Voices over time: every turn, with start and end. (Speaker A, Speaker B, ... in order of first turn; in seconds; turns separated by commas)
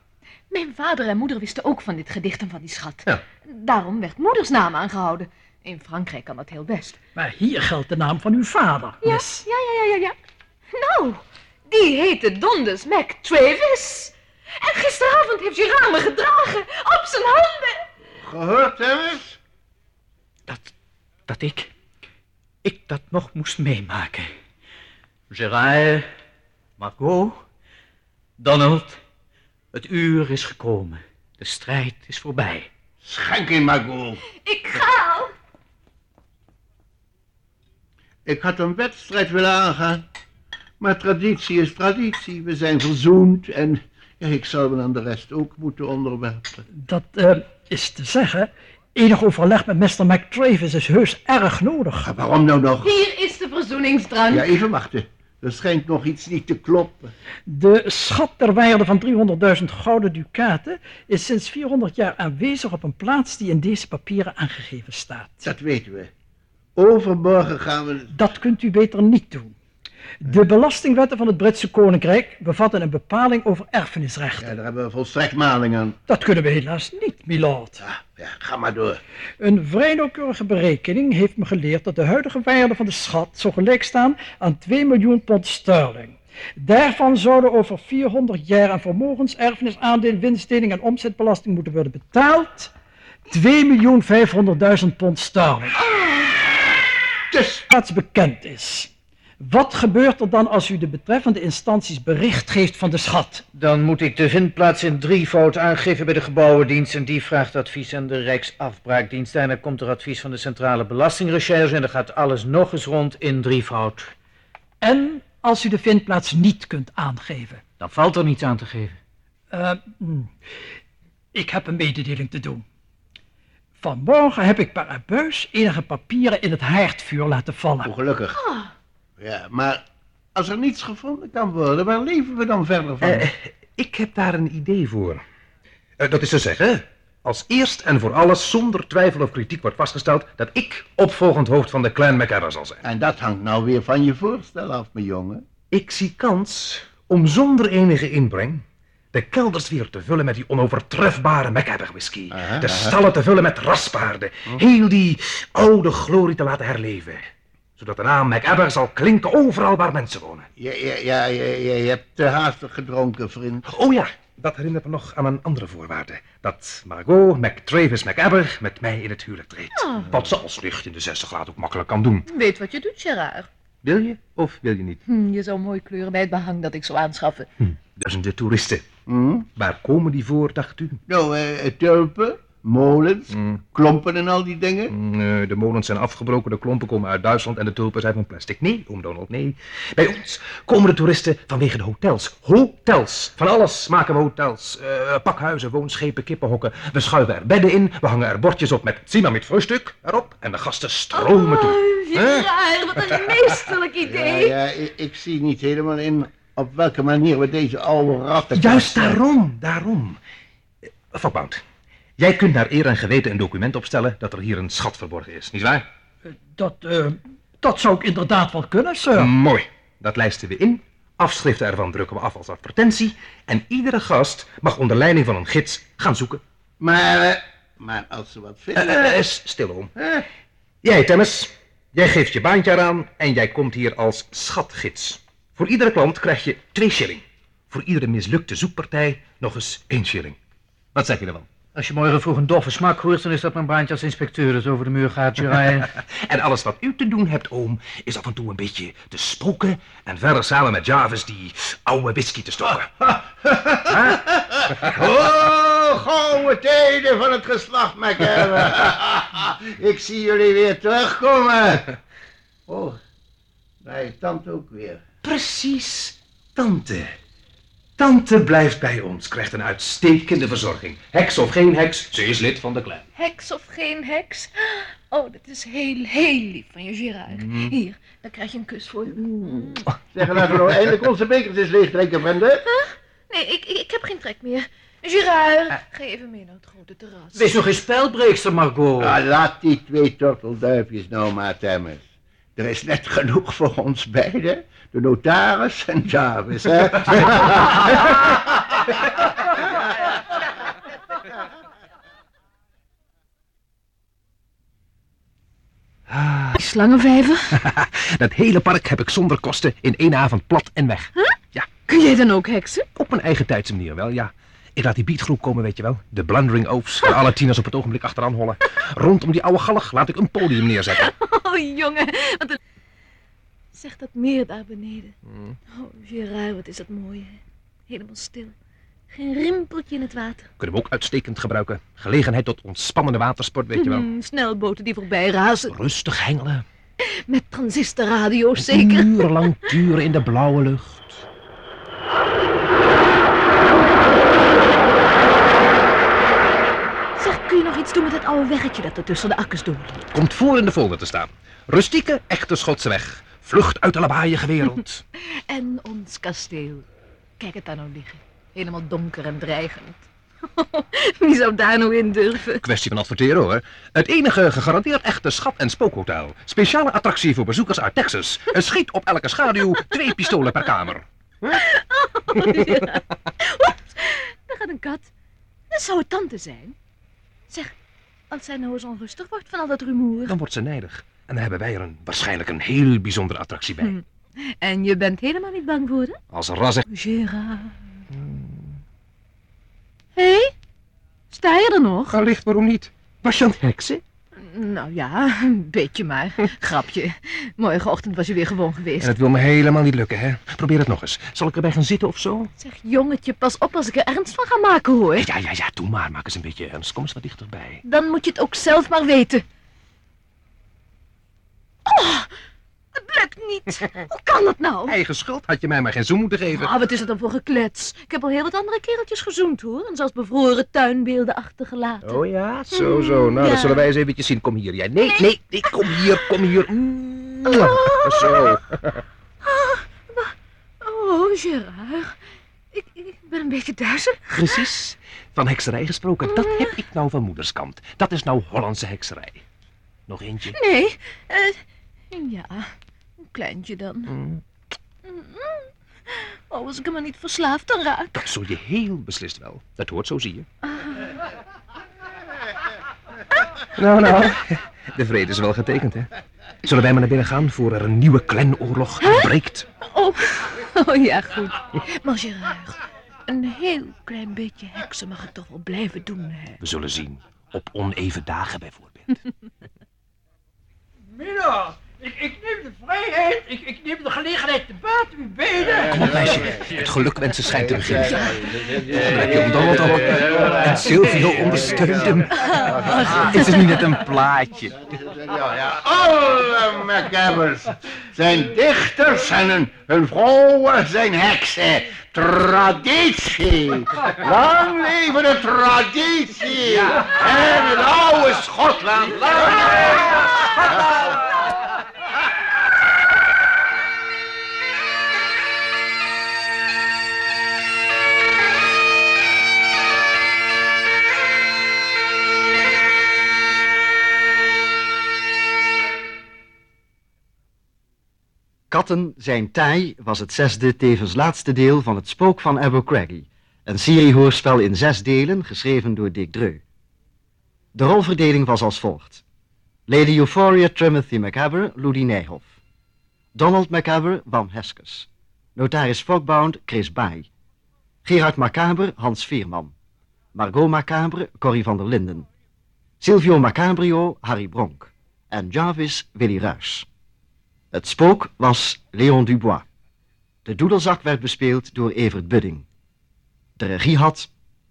Speaker A: 0.5-7.0, Speaker B: 7.2-9.4, Speaker A: 9.0-10.2, Speaker A: 10.7-17.8, Speaker C: 18.2-19.4, Speaker D: 21.3-21.7, Speaker D: 22.6-24.3, Speaker D: 25.3-26.1, Speaker D: 26.8-27.4, Speaker D: 28.4-29.0, Speaker D: 29.7-32.7, Speaker C: 33.0-34.2, Speaker A: 34.4-35.3, Speaker C: 38.3-40.0, Speaker C: 40.8-46.6, Speaker B: 46.7-52.1, Speaker C: 52.0-52.9, Speaker A: 52.8-54.5, Speaker C: 54.3-57.1, Speaker B: 57.5-65.5, Speaker C: 65.4-66.1, Speaker C: 66.8-68.1, Speaker B: 68.1-69.5, Speaker B: 70.2-74.5, Speaker C: 74.4-76.0, Speaker B: 76.1-77.8, Speaker C: 77.8-79.0, Speaker B: 79.4-92.7, Speaker B: 93.3-95.8, Speaker C: 95.9-96.3, Speaker C: 97.3-97.7, Speaker B: 97.7-103.5, Speaker D: 103.5-114.1, Speaker B: 114.8-117.6, Speaker D: 117.8-119.0, Speaker B: 119.5-120.3, Speaker B: 121.3-122.6, Speaker B: 123.8-127.9, Speaker C: 127.8-128.4, Speaker A: 128.3-128.7, Speaker C: 129.2-129.8, Speaker C: 130.3-133.3, Speaker E: 133.0-135.2, Speaker E: 136.0-142.8, Speaker C: 142.8-145.4, Speaker E: 145.7-157.2, Speaker C: 152.3-153.0, Speaker E: 157.8-160.5, Speaker C: 160.6-163.7, Speaker E: 163.7-172.3, Speaker A: 169.8-170.1, Speaker A: 172.3-173.5, Speaker E: 173.8-175.0, Speaker A: 175.1-177.5, Speaker E: 178.0-178.8, Speaker C: 179.1-179.5, Speaker E: 179.6-181.0, Speaker C: 181.1-184.9, Speaker E: 183.3-183.6, Speaker E: 184.9-202.5, Speaker A: 201.1-204.6, Speaker C: 204.0-209.2, Speaker E: 208.6-210.2, Speaker E: 211.1-211.6, Speaker E: 212.2-215.8, Speaker B: 216.3-219.3, Speaker E: 219.1-226.4, Speaker C: 226.8-229.2, Speaker E: 228.8-229.9, Speaker C: 230.0-230.2, Speaker E: 230.8-240.4, Speaker E: 240.9-241.5, Speaker D: 241.8-245.9, Speaker E: 246.0-253.1, Speaker C: 253.4-261.9, Speaker E: 253.8-254.3, Speaker C: 262.7-263.0, Speaker C: 263.8-265.0, Speaker E: 265.2-267.1, Speaker E: 268.0-273.1, Speaker A: 273.2-279.8, Speaker E: 277.3-277.7, Speaker C: 280.1-282.6, Speaker A: 282.6-287.6, Speaker D: 287.4-289.1, Speaker C: 289.0-292.0, Speaker C: 292.6-298.1, Speaker E: 306.1-306.6, Speaker A: 306.5-307.5, Speaker E: 307.6-311.7, Speaker A: 311.9-312.9, Speaker E: 312.9-321.1, Speaker A: 320.9-322.6, Speaker A: 323.7-325.1, Speaker E: 325.3-325.6, Speaker A: 325.7-327.4, Speaker A: 327.9-328.5, Speaker A: 329.1-330.5, Speaker E: 330.6-334.1, Speaker A: 333.8-335.8, Speaker E: 335.7-336.6, Speaker A: 337.1-339.8, Speaker E: 338.6-341.2, Speaker A: 347.2-350.0, Speaker E: 350.1-355.0, Speaker A: 355.5-356.8, Speaker A: 357.4-362.6, Speaker E: 362.6-371.1, Speaker A: 371.4-375.1, Speaker A: 375.7-376.8, Speaker A: 378.3-380.4, Speaker E: 380.3-383.9, Speaker A: 384.6-386.2, Speaker E: 386.3-386.9, Speaker A: 386.9-387.8, Speaker E: 388.1-388.8, Speaker A: 390.2-390.5, Speaker A: 391.3-392.2, Speaker E: 392.1-394.0, Speaker A: 394.4-399.1, Speaker E: 399.0-402.5, Speaker A: 402.6-405.3, Speaker E: 405.2-407.8, Speaker A: 407.9-409.4, Speaker A: 411.9-412.3, Speaker A: 412.9-415.0, Speaker E: 414.9-416.7, Speaker A: 416.5-422.2, Speaker E: 422.0-429.0, Speaker A: 422.7-423.9, Speaker A: 425.0-426.2, Speaker A: 427.5-428.5, Speaker A: 429.4-432.2, Speaker A: 432.7-434.7, Speaker E: 434.3-439.4, Speaker A: 436.3-436.8, Speaker E: 440.1-440.6, Speaker A: 440.5-441.6, Speaker A: 442.1-442.7, Speaker A: 443.2-444.1, Speaker E: 444.1-444.4, Speaker A: 445.0-448.3, Speaker E: 448.2-450.5, Speaker A: 450.7-451.1, Speaker E: 453.8-456.1, Speaker E: 456.6-459.7, Speaker A: 459.0-459.3, Speaker A: 459.8-466.6, Speaker E: 466.6-469.2, Speaker B: 471.1-476.5, Speaker E: 475.9-478.1, Speaker C: 475.9-476.6, Speaker C: 477.6-483.8, Speaker E: 478.9-482.4, Speaker A: 482.4-483.8, Speaker E: 483.0-484.7, Speaker C: 484.7-499.8, Speaker E: 496.8-497.6, Speaker E: 498.9-501.2, Speaker F: 518.7-526.6, Speaker F: 527.7-529.2, Speaker F: 529.9-532.5, Speaker F: 533.4-537.3, Speaker F: 538.0-539.7, Speaker F: 540.3-542.3, Speaker F: 543.0-546.9, Speaker F: 547.7-549.6, Speaker F: 550.5-552.6, Speaker F: 553.6-554.3